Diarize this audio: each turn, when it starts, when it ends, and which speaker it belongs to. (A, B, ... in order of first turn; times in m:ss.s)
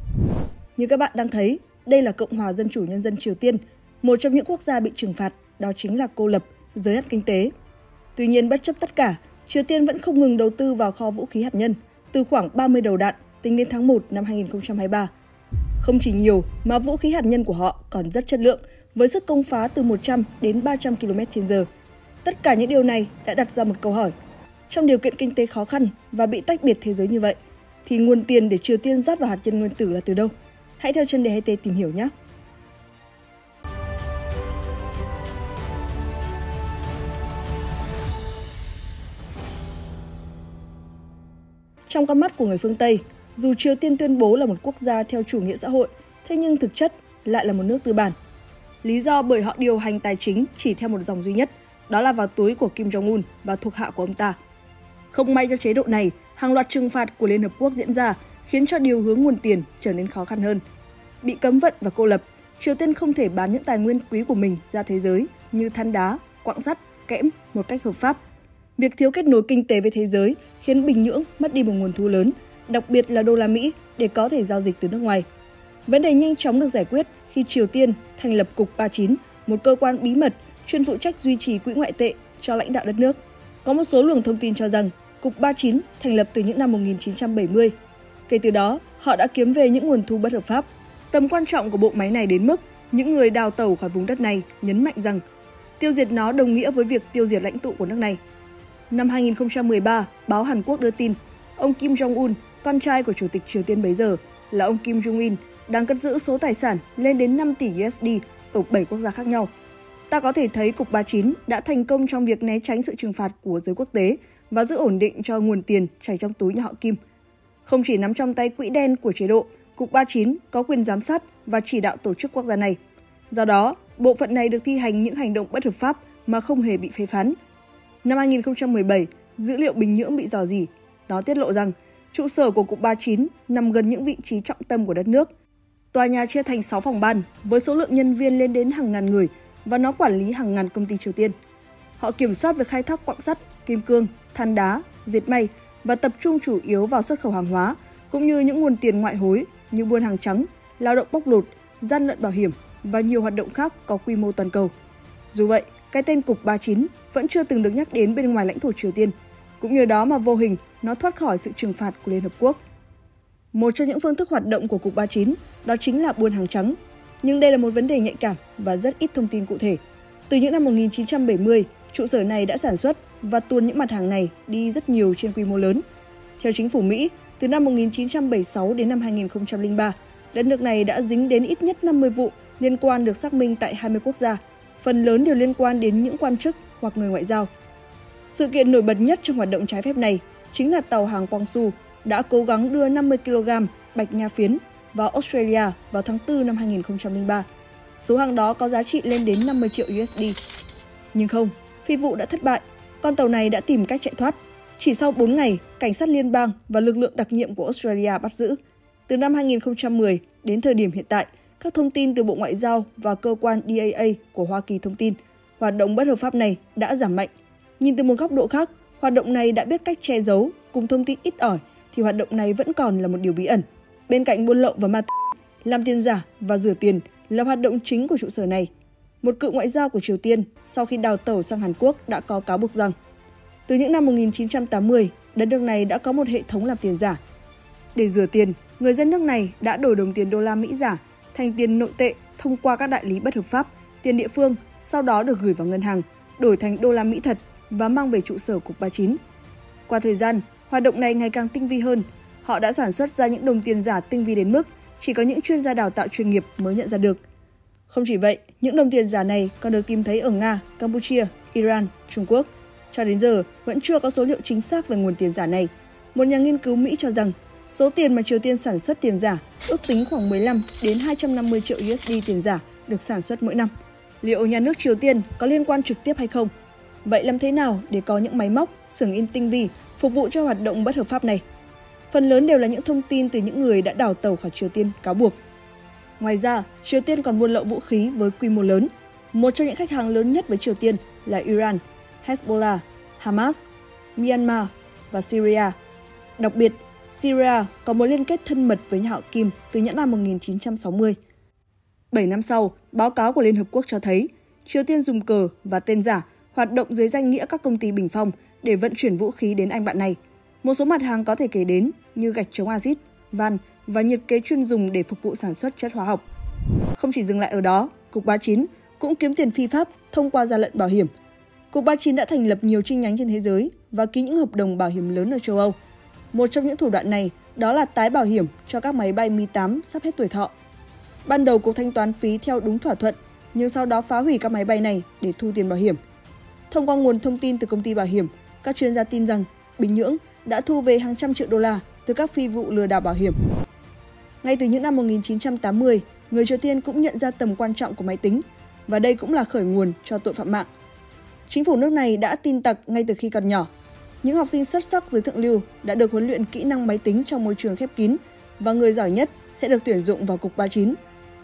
0:00.8-0:07.5 A
0:08.2-0:15.1 A
0:15.8-0:21.7 A
0:22.2-0:24.1 A
0:24.7-0:32.1 A
0:41.9-0:48.1 A
0:48.8-0:54.4 A
0:55.1-1:00.6 A
1:01.2-1:08.2 A
1:08.8-1:15.2 A
1:15.8-1:27.7 A
1:28.3-1:35.2 A
1:35.8-1:38.2 A
1:38.9-1:49.5 A
1:50.1-1:57.0 A
1:57.6-2:02.8 A
2:03.3-2:07.3 A
2:08.0-2:15.3 A
2:15.9-2:21.3 A
2:22.0-2:34.7 A
2:35.3-2:42.6 A
2:43.5-2:55.8 A
2:56.4-3:07.5 A
3:08.3-3:17.4 A
3:18.0-3:20.4 A
3:21.1-3:48.7 A
3:49.2-3:52.9 A
3:53.7-3:57.2 A
3:57.9-4:09.2 A
4:09.9-4:17.2 A
4:17.9-4:33.7 A
4:34.2-4:36.5 A
4:37.0-4:41.4 A
4:42.1-4:45.4 A
4:46.2-4:53.6 A
4:54.2-4:55.7 A
4:56.4-5:01.2 A
5:02.1-5:16.2 A
5:16.9-5:21.1 A
5:21.7-5:25.7 A
5:26.3-5:30.5 A
5:31.2-5:36.0 A
5:36.7-5:43.4 A
5:44.4-5:50.7 A
5:51.5-5:53.7 A
5:54.2-6:01.0 A